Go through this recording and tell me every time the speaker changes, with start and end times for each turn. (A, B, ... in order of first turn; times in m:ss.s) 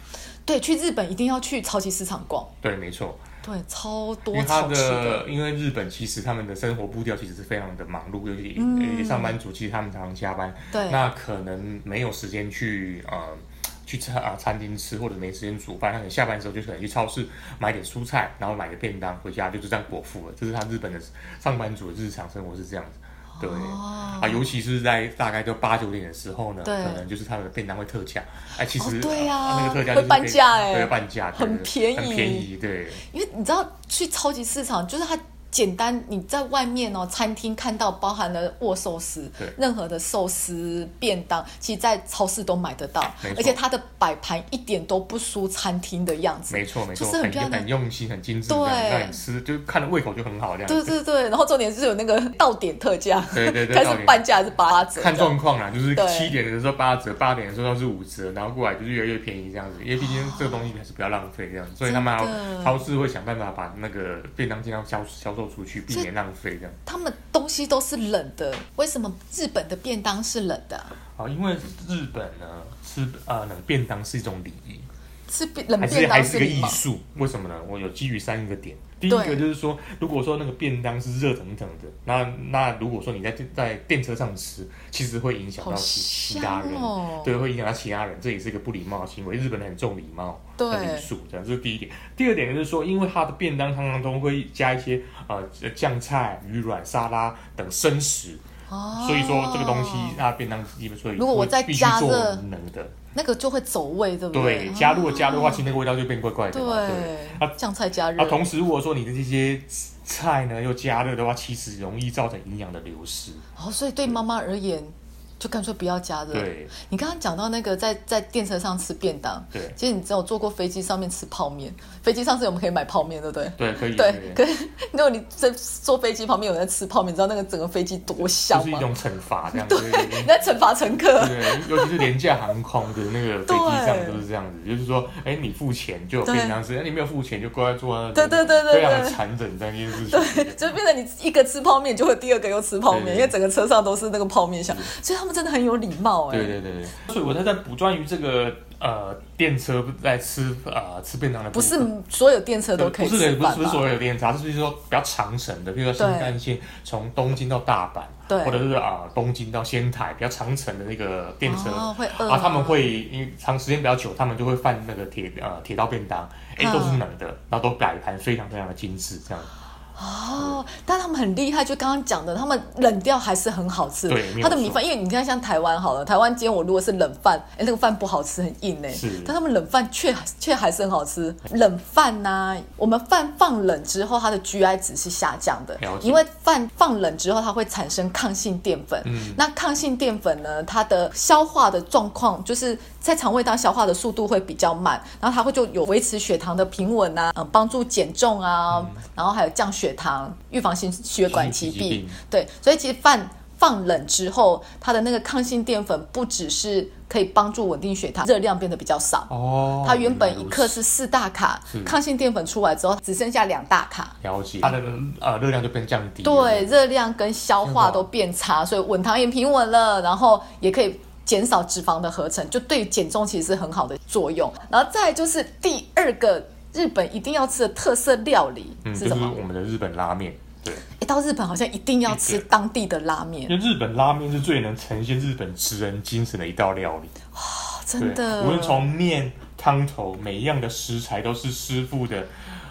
0:00.4-0:02.5 A
0:02.6-0:03.2 B
0:03.4-0:05.2 A
0:04.3-0:33.0 B
0:08.6-0:09.3 A
0:10.7-0:11.0 A
0:23.4-0:24.4 A
0:26.6-0:27.0 A
0:28.8-0:32.5 A
0:33.0-0:47.7 A
0:43.2-0:43.6 B
0:46.5-0:50.9 B
0:48.5-0:49.2 A
0:50.7-0:55.4 A
0:53.3-0:54.2 B
0:54.9-1:06.8 B
0:55.9-0:56.3 A
1:00.0-1:00.6 A
1:01.8-1:02.8 A
1:06.8-1:10.9 A
1:11.2-1:14.9 B
1:15.3-1:16.8 A
1:15.8-1:38.4 B
1:19.1-1:19.4 A
1:25.6-1:27.3 A
1:30.6-1:31.1 A
1:38.7-1:40.2 A
1:39.0-1:43.0 B
1:41.2-1:42.4 A
1:43.1-1:45.6 A
1:44.3-1:47.5 B
1:46.5-1:48.5 A
1:48.2-1:53.4 B
1:53.6-2:08.9 A
1:56.3-1:56.7 B
2:03.6-2:04.4 B
2:08.5-2:10.3 B
2:09.6-2:12.1 A
2:11.1-2:20.7 B
2:13.4-2:14.2 A
2:16.2-2:16.6 A
2:18.1-2:19.2 A
2:20.0-2:26.6 A
2:22.9-2:23.3 B
2:24.6-2:24.9 B
2:26.3-2:31.9 B
2:31.5-2:33.9 A
2:32.8-2:49.5 B
2:36.0-2:36.4 A
2:38.3-2:38.6 A
2:41.4-2:42.9 A
2:46.6-2:47.0 A
2:50.0-3:29.3 A
2:54.1-2:54.8 B
2:58.9-2:59.3 B
3:05.8-3:06.2 B
3:09.0-3:09.4 B
3:18.7-3:19.0 B
3:21.3-3:22.2 B
3:29.3-3:30.8 B
3:29.8-3:34.2 A
3:31.7-3:32.0 B
3:34.2-3:36.7 B
3:36.2-3:49.4 A
3:37.6-3:38.1 B
3:48.8-3:50.8 B
3:50.9-3:53.5 A
3:52.1-3:52.4 B
3:53.5-3:57.1 B
3:57.3-3:58.9 A
3:58.0-4:02.3 B